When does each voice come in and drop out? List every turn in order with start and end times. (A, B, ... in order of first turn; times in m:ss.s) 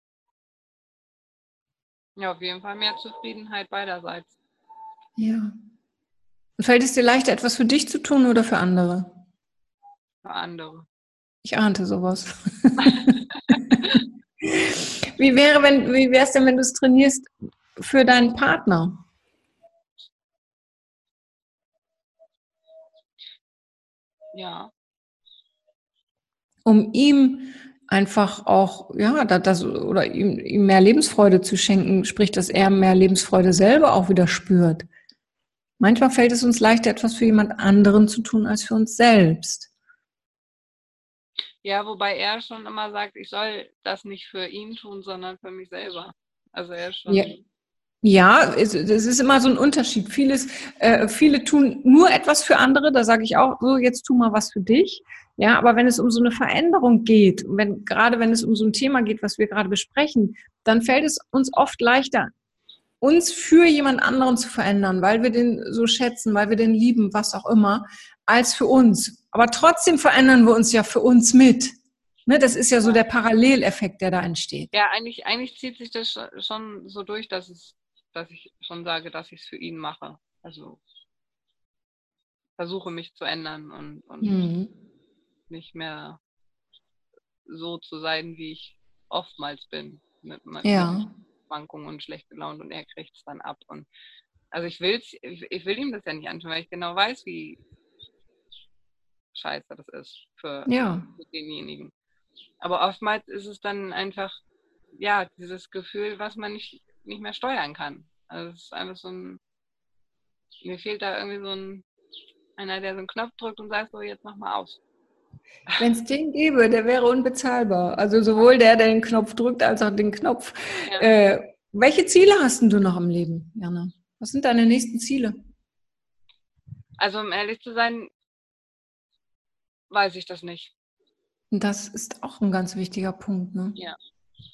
0:02.2-0:04.3 A
0:05.2-0:05.5 B
0:06.6-0:09.1 B
0:10.2-0:10.9 A
0:11.4-0:19.0 B
0:12.8-0:14.0 A
0:24.3-0:24.7 A
0:26.6-0:34.9 B
0:35.8-0:39.7 B
0:41.6-0:47.4 A
0:48.0-1:02.3 B
1:03.0-1:14.7 B
1:14.7-1:20.8 A
1:22.6-1:24.4 A
1:24.2-1:24.7 B
1:25.5-1:26.2 A
1:27.4-1:33.9 A
1:30.6-1:31.1 B
1:34.5-1:37.6 A
1:39.3-1:41.9 A
1:40.6-1:41.1 B
1:42.6-1:44.4 A
1:44.9-1:49.4 A
1:50.6-1:51.8 A
1:52.6-1:54.8 A
1:55.8-2:05.4 B
2:07.0-2:08.1 A
2:09.9-2:10.7 A
2:11.5-2:13.8 B